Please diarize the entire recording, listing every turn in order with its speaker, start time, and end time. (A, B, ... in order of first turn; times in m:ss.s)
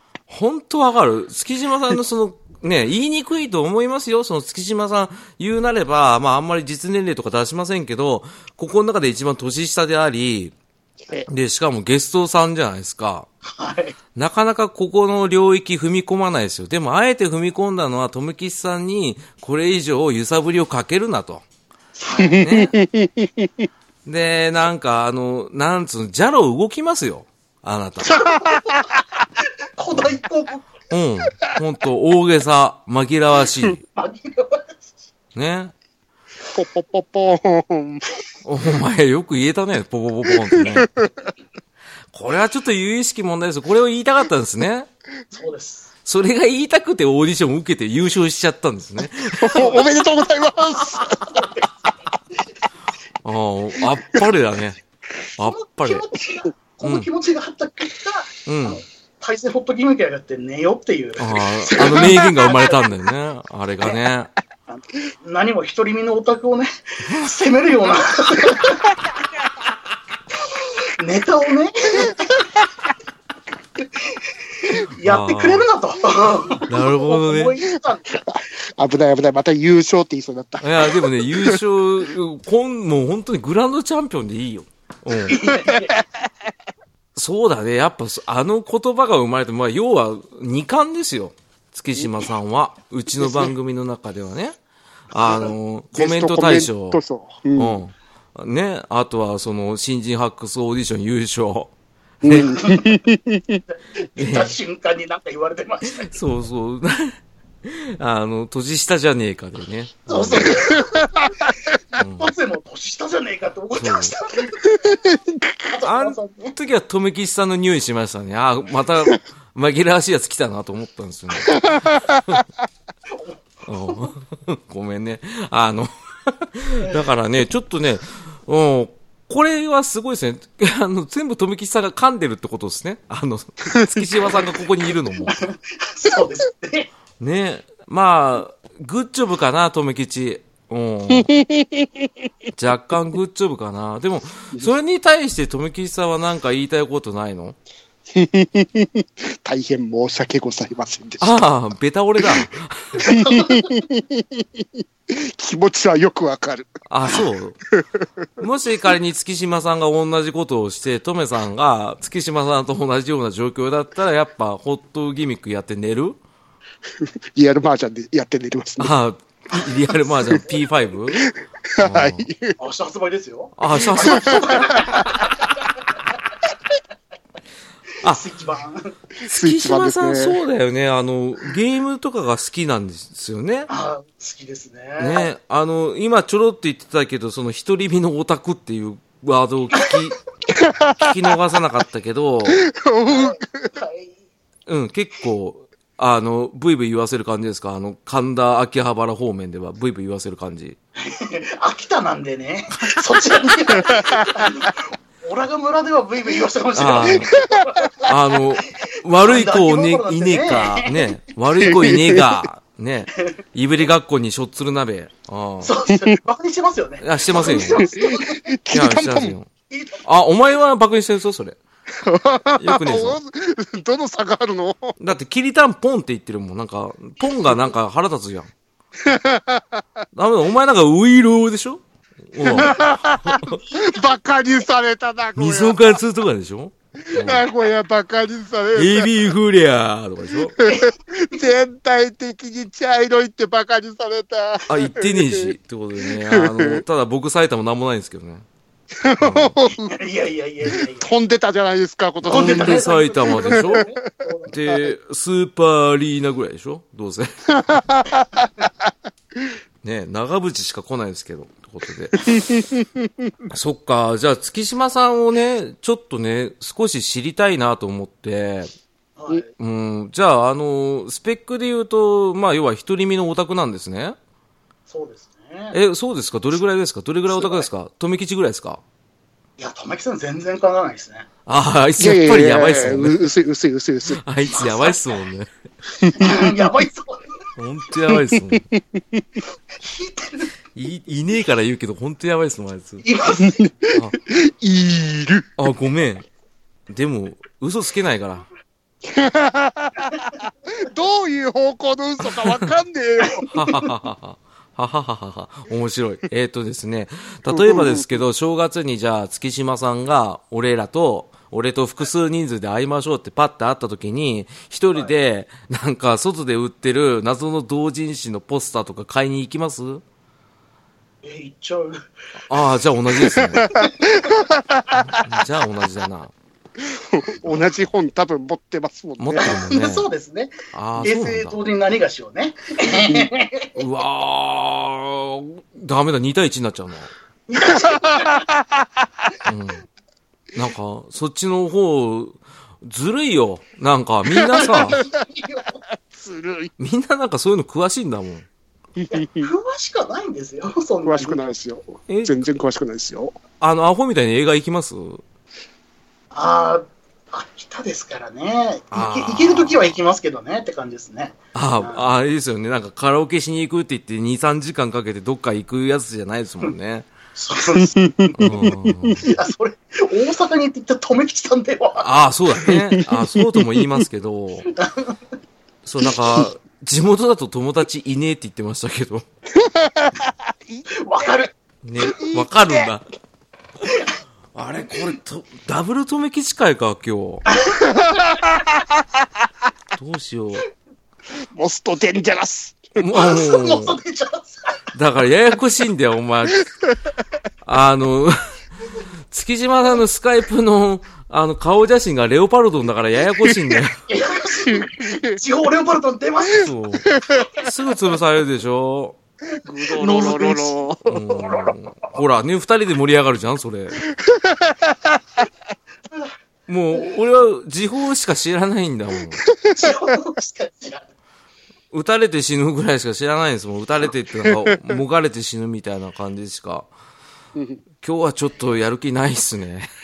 0:00.3-0:10.5 A
0:11.3-0:13.3 A
0:13.4-0:14.0 B
0:14.1-0:21.4 A
0:22.0-0:22.4 B
0:22.2-0:23.7 C
0:22.4-0:22.8 A
0:24.0-0:28.3 A
0:28.0-0:29.0 C
0:28.4-0:28.8 B
0:29.4-0:30.7 B
0:30.9-0:33.8 A
0:33.9-0:34.8 B
0:35.3-0:35.7 A
0:36.5-0:38.0 C
0:38.4-0:40.9 A
0:40.4-0:41.3 C
0:42.1-0:44.9 A
0:45.3-0:45.9 B
0:46.0-0:49.7 A
0:49.3-0:51.5 C
0:49.6-0:49.8 B
0:50.7-0:51.7 B
0:53.2-0:54.8 A
0:55.4-0:56.0 A
0:55.4-1:02.8 B
0:56.8-0:57.1 A
0:58.5-0:58.8 A
1:01.2-1:04.3 A
1:04.7-1:08.9 B
1:07.0-1:07.3 A
1:10.5-1:12.6 B
1:13.9-1:18.1 B
1:15.0-1:15.7 A
1:16.6-1:17.6 A
1:18.1-1:21.6 C
1:20.6-1:25.4 A
1:25.3-1:26.0 B
1:25.4-1:26.0 C
1:27.1-1:34.5 A
1:35.1-1:37.0 A
1:35.1-1:35.5 B
1:35.9-1:37.8 C
1:37.6-1:41.7 A
1:42.2-1:42.5 A
1:42.2-1:43.6 C
1:42.5-1:42.8 B
1:44.0-1:46.1 B
1:44.2-1:44.6 A
1:45.8-1:50.8 A
1:50.1-1:54.9 B
1:50.7-1:51.8 C
1:51.9-1:52.3 A
1:53.8-1:54.2 A
1:54.6-1:55.7 C
1:55.7-1:56.5 B
1:55.8-2:02.4 A
2:01.5-2:02.4 C
2:03.1-2:04.1 B
2:03.7-2:15.4 A
2:13.7-2:14.0 C
2:15.3-2:16.9 B
2:17.2-2:21.3 A
2:21.1-2:22.1 C
2:22.5-2:27.6 A
2:28.1-2:31.4 C
2:31.2-2:33.1 A
2:33.0-2:38.0 C
2:33.2-2:33.6 B
2:36.9-2:37.6 A
2:38.4-2:46.2 A
2:47.0-2:48.9 C
2:48.8-2:51.2 A
2:51.2-2:52.6 C
2:51.8-2:52.3 A
2:52.6-2:55.5 B
2:53.6-2:54.8 A
2:54.0-2:55.5 C
2:58.0-2:58.9 B
2:59.2-3:00.4 C
2:59.2-3:03.7 A
3:03.7-3:05.3 B
3:05.0-3:10.2 A
3:10.5-3:11.1 C
3:11.0-3:12.6 A
3:12.4-3:13.7 C
3:13.0-3:14.1 B
3:14.7-3:20.8 A
3:21.0-3:31.1 B
3:23.6-3:24.6 C
3:26.7-3:27.3 A
3:27.1-3:27.9 C
3:28.0-3:35.7 A
3:31.6-3:32.4 C
3:35.6-3:38.5 B
3:37.0-3:37.8 A
3:37.4-3:39.3 C
3:38.7-3:39.5 A
3:39.7-3:40.0 B
3:40.0-3:41.6 A
3:42.0-3:45.0 C
3:42.6-3:43.2 A
3:45.0-3:48.5 A
3:49.0-3:49.8 C
3:50.1-3:53.6 A
3:52.4-3:56.0 C
3:55.4-3:57.4 A
3:57.0-3:59.3 C
3:58.7-4:00.5 A
4:00.6-4:05.5 C
4:00.6-4:00.9 B
4:04.7-4:08.4 A
4:06.1-4:06.8 C
4:09.0-4:09.9 C
4:09.2-4:09.6 A
4:09.8-4:11.0 B
4:10.7-4:14.0 C
4:12.2-4:13.8 A
4:12.3-4:14.6 B
4:14.5-4:17.8 A
4:17.5-4:18.7 C
4:19.8-4:22.6 A
4:22.2-4:23.1 C
4:23.5-4:28.7 A
4:29.2-4:29.5 B
4:29.6-4:34.2 A
4:34.9-4:35.8 B
4:35.7-4:38.8 A
4:39.6-4:41.3 B
4:41.4-4:43.3 A
4:42.0-4:44.2 C
4:44.1-4:45.5 A
4:44.5-4:45.0 B
4:46.0-4:46.5 C
4:46.2-4:47.3 B
4:47.6-4:48.6 A
4:48.1-4:49.2 C
4:49.8-4:50.5 B
4:50.7-4:53.0 A
4:53.0-4:53.6 B
4:53.3-4:55.6 C
4:55.6-4:56.2 A
4:56.9-4:58.5 A
4:59.0-5:03.5 C
5:02.4-5:02.7 A
5:03.3-5:03.9 B
5:03.5-5:20.0 A
5:07.5-5:08.2 C
5:21.2-5:22.0 B
5:22.5-5:23.7 A
5:23.3-5:25.2 C
5:23.8-5:24.1 B
5:25.0-5:26.3 A
5:26.8-5:29.6 C
5:29.2-5:30.1 A
5:29.4-5:33.8 B
5:30.7-5:31.6 A
5:33.0-5:33.2 C
5:33.8-5:37.1 A
5:37.5-5:38.5 B
5:37.6-5:38.8 C
5:39.4-5:39.8 A
5:40.5-5:45.0 A
5:44.4-5:45.2 C
5:44.6-5:45.8 B
5:46.0-5:46.7 C
5:46.8-5:48.5 A
5:49.0-5:49.5 C
5:49.1-5:51.5 B
5:51.0-5:53.4 C
5:52.1-5:52.5 A
5:53.6-5:55.2 A
5:56.3-6:02.0 B
5:58.9-5:59.9 A
6:01.5-6:07.1 A
6:07.3-6:08.4 B
6:07.8-6:09.3 C
6:08.4-6:09.3 A
6:09.2-6:12.1 B
6:12.0-6:14.7 A
6:12.7-6:13.9 C
6:14.6-6:15.1 B
6:15.8-6:19.2 A
6:19.5-6:20.9 C
6:21.0-6:21.5 B
6:21.8-6:23.0 A
6:22.0-6:22.8 C
6:23.8-6:24.1 B
6:24.5-6:27.4 A
6:27.5-6:28.5 B
6:27.8-6:29.0 C
6:29.9-6:30.6 A
6:31.5-6:32.9 C
6:33.0-6:34.0 A
6:33.1-6:34.8 B
6:34.9-6:36.7 A
6:36.9-6:37.1 C
6:37.6-6:38.4 A
6:39.3-6:44.0 A
6:44.1-6:46.7 B
6:44.6-6:45.4 C
6:46.5-6:49.2 A
6:47.0-6:47.5 C
6:49.6-6:51.2 C
6:50.0-6:50.7 B
6:51.1-6:54.0 A
6:51.3-6:52.2 B
6:54.1-6:55.2 C
6:56.1-6:56.3 B
6:56.7-6:59.4 A
6:59.4-6:59.9 C
6:59.7-7:01.0 B
7:01.9-7:06.9 A
7:04.4-7:04.8 C
7:07.5-7:07.8 C
7:08.0-7:09.9 A